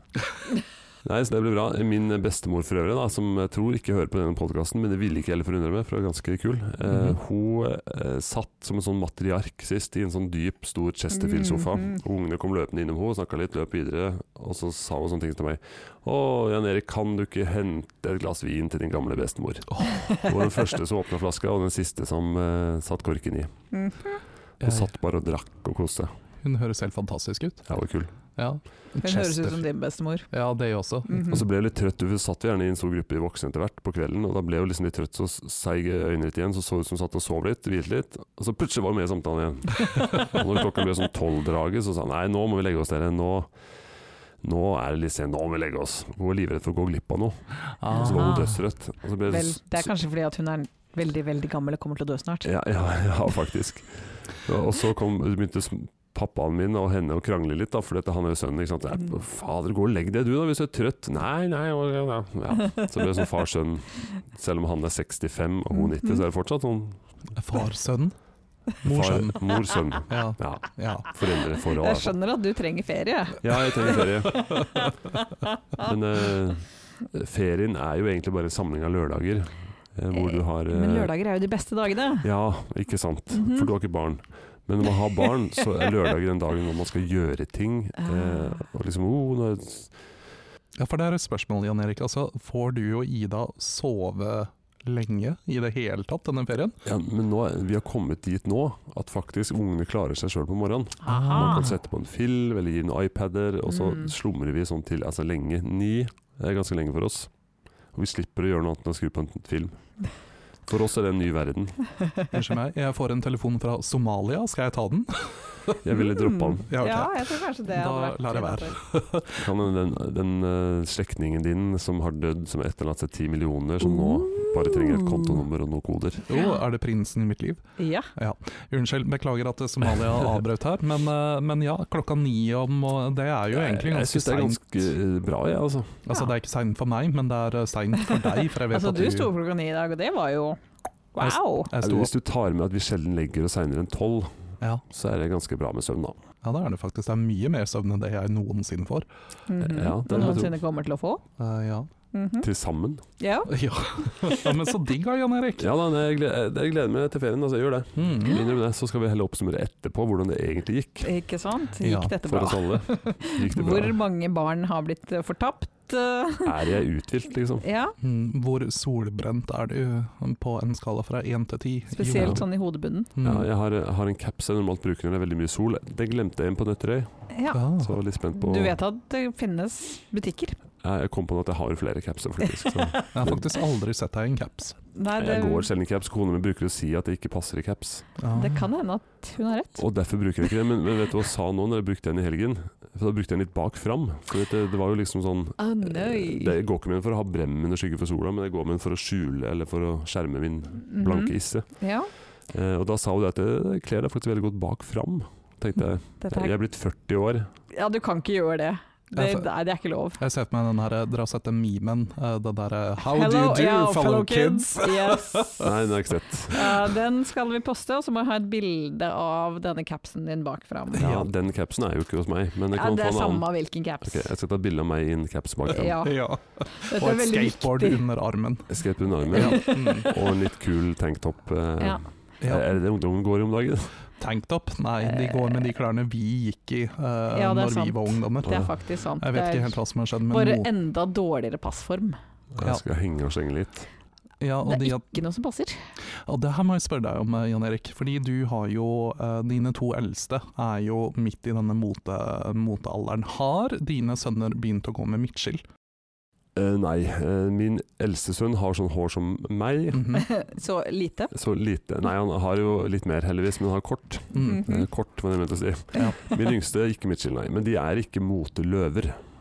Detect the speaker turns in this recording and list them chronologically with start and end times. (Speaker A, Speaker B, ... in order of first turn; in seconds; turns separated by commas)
Speaker A: 1.0-23.5, Speaker B: 6.9-7.2, Speaker C: 11.1-12.0, Speaker B: 19.8-20.1, Speaker C: 19.9-20.3, Speaker C: 23.7-24.2, Speaker B: 24.6-24.9, Speaker A: 24.6-26.1, Speaker B: 26.4-27.6, Speaker A: 27.7-28.1, Speaker B: 28.4-29.6, Speaker C: 29.0-30.3, Speaker B: 30.3-31.3, Speaker C: 31.1-31.4, Speaker A: 31.3-43.5, Speaker A: 44.4-49.9, Speaker B: 47.8-48.6, Speaker C: 47.9-48.5, Speaker C: 49.2-52.5, Speaker A: 52.4-67.0, Speaker C: 65.7-66.2, Speaker B: 67.4-68.2, Speaker B: 68.8-69.5, Speaker A: 68.8-72.2, Speaker B: 70.1-71.1, Speaker C: 71.7-75.9, Speaker A: 73.4-74.7, Speaker A: 75.8-81.1, Speaker C: 80.1-82.3, Speaker A: 82.2-89.9, Speaker C: 83.3-83.7, Speaker C: 88.0-88.7, Speaker B: 90.8-96.8, Speaker A: 96.8-107.3, Speaker C: 101.0-101.7, Speaker B: 101.1-101.8, Speaker C: 103.7-104.1, Speaker A: 107.9-109.8, Speaker A: 110.7-111.8, Speaker B: 112.3-115.8, Speaker A: 115.8-116.7, Speaker C: 116.0-118.8, Speaker B: 116.7-119.4, Speaker A: 119.3-126.3, Speaker B: 126.3-127.6, Speaker C: 126.3-126.6, Speaker C: 127.8-128.1, Speaker B: 128.2-134.6, Speaker A: 133.5-136.0, Speaker B: 136.1-139.3, Speaker C: 138.5-140.6, Speaker C: 141.1-141.7, Speaker B: 141.2-142.1, Speaker A: 141.8-144.3, Speaker A: 144.9-146.2, Speaker B: 146.4-149.1, Speaker C: 149.5-151.2, Speaker A: 149.6-150.6, Speaker B: 150.1-150.4, Speaker B: 151.4-151.9, Speaker C: 152.1-152.5, Speaker A: 152.4-153.0, Speaker C: 153.2-153.5, Speaker B: 153.5-155.7, Speaker A: 155.6-161.1, Speaker B: 158.0-158.4, Speaker C: 161.0-166.5, Speaker B: 161.8-162.2, Speaker A: 162.2-164.0, Speaker A: 166.4-167.7, Speaker C: 167.6-168.0, Speaker B: 168.0-172.5, Speaker C: 171.9-173.1, Speaker A: 172.1-172.4, Speaker B: 173.2-173.5, Speaker A: 173.2-178.8, Speaker C: 177.3-177.6, Speaker B: 177.5-178.0, Speaker C: 178.3-180.6, Speaker A: 180.8-183.4, Speaker C: 182.6-183.2, Speaker B: 183.1-184.8, Speaker C: 184.9-185.7, Speaker A: 185.2-188.1, Speaker B: 188.2-188.7, Speaker C: 188.3-189.8, Speaker A: 189.8-201.7, Speaker C: 195.6-196.6, Speaker C: 200.9-202.1, Speaker A: 202.5-207.5, Speaker C: 206.2-206.6, Speaker C: 207.7-210.2, Speaker B: 209.2-209.5, Speaker B: 210.2-215.7, Speaker C: 213.1-215.7, Speaker A: 215.6-216.8, Speaker C: 216.5-221.1, Speaker B: 220.9-221.3, Speaker A: 220.9-223.5, Speaker C: 222.8-224.3, Speaker A: 224.0-226.0, Speaker C: 225.7-228.0, Speaker B: 226.0-228.7, Speaker A: 228.7-234.0, Speaker B: 229.3-230.1, Speaker C: 229.3-230.3, Speaker B: 232.4-232.7, Speaker B: 234.2-240.7, Speaker C: 235.0-235.7, Speaker C: 237.3-239.8, Speaker C: 240.3-242.2, Speaker A: 242.5-243.9, Speaker B: 244.4-245.1, Speaker C: 244.7-245.8, Speaker B: 246.2-255.6, Speaker A: 256.6-260.2, Speaker B: 259.9-260.3, Speaker C: 260.1-261.3, Speaker A: 261.3-269.2, Speaker B: 264.3-264.8, Speaker C: 264.4-264.8